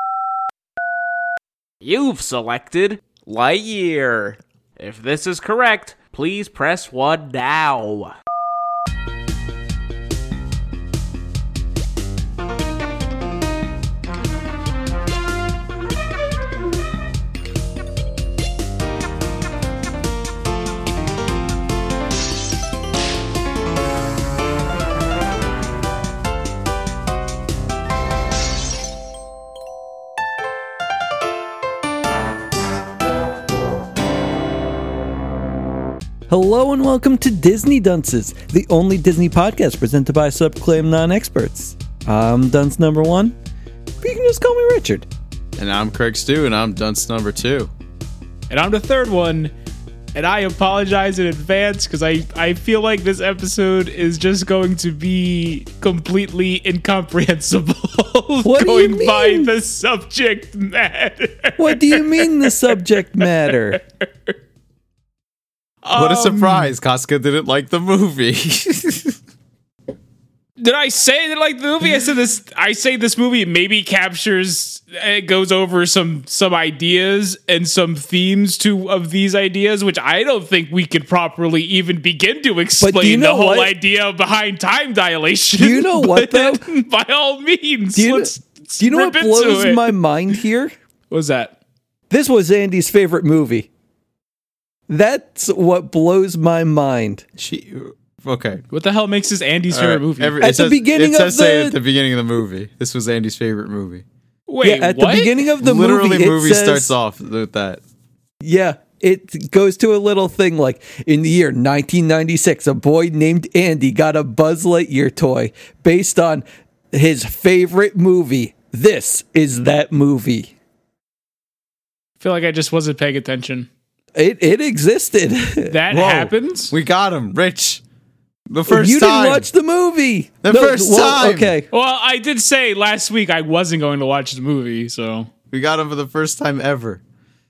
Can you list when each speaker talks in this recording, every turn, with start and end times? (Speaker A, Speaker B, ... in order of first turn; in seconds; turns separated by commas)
Speaker A: 1.8-8.1, Speaker B: 36.3-43.4, Speaker B: 44.0-45.1, Speaker C: 45.6-47.7, Speaker D: 48.5-49.5, Speaker D: 50.1-63.3, Speaker B: 58.4-59.5, Speaker B: 61.6-63.8, Speaker D: 64.0-64.3, Speaker D: 65.8-66.7, Speaker C: 65.9-69.2, Speaker D: 70.6-89.9, Speaker B: 82.8-83.7, Speaker B: 85.5-86.7, Speaker B: 87.9-90.7, Speaker D: 91.1-91.5, Speaker B: 92.1-93.7, Speaker B: 94.9-97.2, Speaker C: 97.4-98.6, Speaker D: 98.7-100.4, Speaker C: 99.7-104.0, Speaker B: 100.4-101.8, Speaker D: 104.5-105.4, Speaker B: 104.6-106.9, Speaker C: 105.6-107.8, Speaker B: 108.4-120.5, Speaker D: 122.2-123.7, Speaker B: 124.1-125.8, Speaker D: 125.6-126.7, Speaker C: 125.9-127.8, Speaker C: 128.5-129.5, Speaker B: 128.7-131.7, Speaker C: 130.4-131.5, Speaker D: 131.7-135.3, Speaker C: 135.5-137.0